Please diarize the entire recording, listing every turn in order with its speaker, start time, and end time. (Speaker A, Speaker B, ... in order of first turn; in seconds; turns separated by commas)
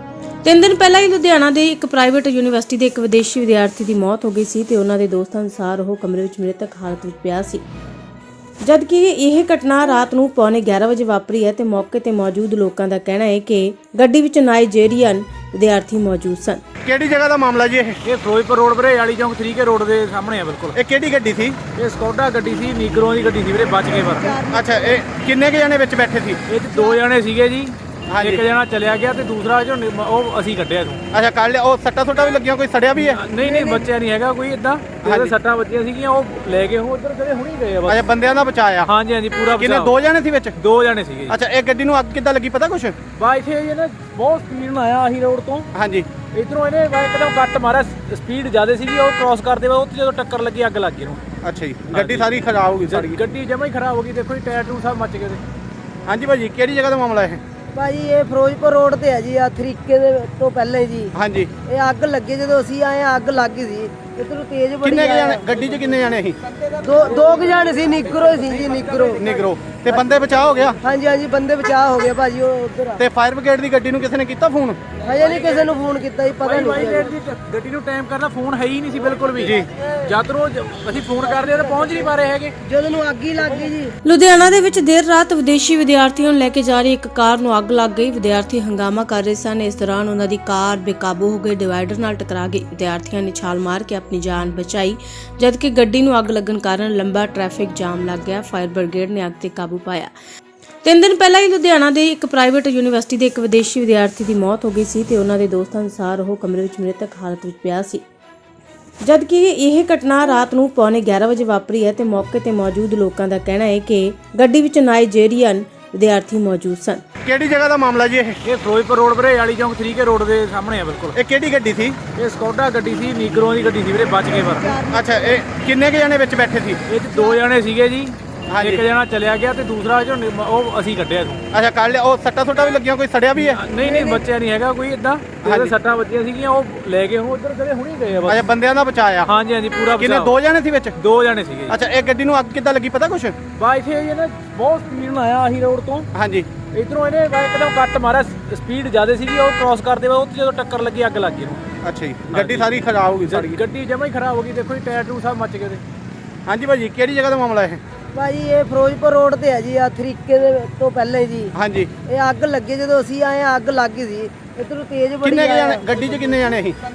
Speaker A: 0.4-7.6, Speaker A: 8.6-16.6, Speaker B: 16.8-18.0, Speaker C: 18.0-20.8, Speaker B: 20.7-21.6, Speaker C: 21.7-24.4, Speaker D: 23.9-25.0, Speaker B: 24.5-26.4, Speaker C: 26.5-31.0, Speaker B: 28.1-28.4, Speaker B: 31.1-33.2, Speaker C: 33.0-38.0, Speaker D: 33.4-33.9, Speaker B: 35.0-35.3, Speaker B: 37.9-38.9, Speaker C: 38.9-39.9, Speaker B: 39.5-40.6, Speaker C: 40.6-41.4, Speaker B: 41.3-43.0, Speaker C: 43.1-45.7, Speaker B: 45.7-46.1, Speaker C: 46.3-51.2, Speaker B: 51.4-53.2, Speaker C: 51.9-52.3, Speaker C: 52.9-55.4, Speaker B: 56.0-57.4, Speaker D: 57.7-61.1, Speaker B: 61.1-61.5, Speaker D: 61.6-65.5, Speaker B: 64.8-66.4, Speaker D: 66.8-69.2, Speaker C: 68.2-69.2, Speaker B: 69.2-70.8, Speaker D: 70.8-73.0, Speaker B: 73.0-74.8, Speaker D: 75.0-77.1, Speaker C: 76.4-82.5, Speaker B: 79.4-79.7, Speaker D: 82.6-83.9, Speaker A: 84.0-100.1, Speaker A: 100.8-108.0, Speaker A: 109.0-117.0, Speaker B: 117.2-118.4, Speaker C: 118.4-121.2, Speaker B: 121.1-122.0, Speaker C: 122.1-124.8, Speaker D: 124.3-125.4, Speaker B: 124.9-126.8, Speaker C: 126.9-131.4, Speaker B: 128.5-128.8, Speaker B: 131.5-133.6, Speaker C: 133.3-138.5, Speaker D: 133.8-134.2, Speaker B: 135.4-135.7, Speaker B: 138.2-139.3, Speaker C: 139.2-140.3, Speaker B: 140.0-141.0, Speaker C: 140.9-141.8, Speaker B: 141.7-143.3, Speaker C: 143.6-146.1, Speaker B: 146.1-146.5, Speaker C: 146.7-151.6, Speaker B: 151.8-153.6, Speaker C: 152.3-155.8, Speaker B: 156.4-157.8, Speaker D: 158.1-161.5, Speaker B: 161.5-161.9, Speaker D: 162.1-165.9, Speaker B: 165.2-166.8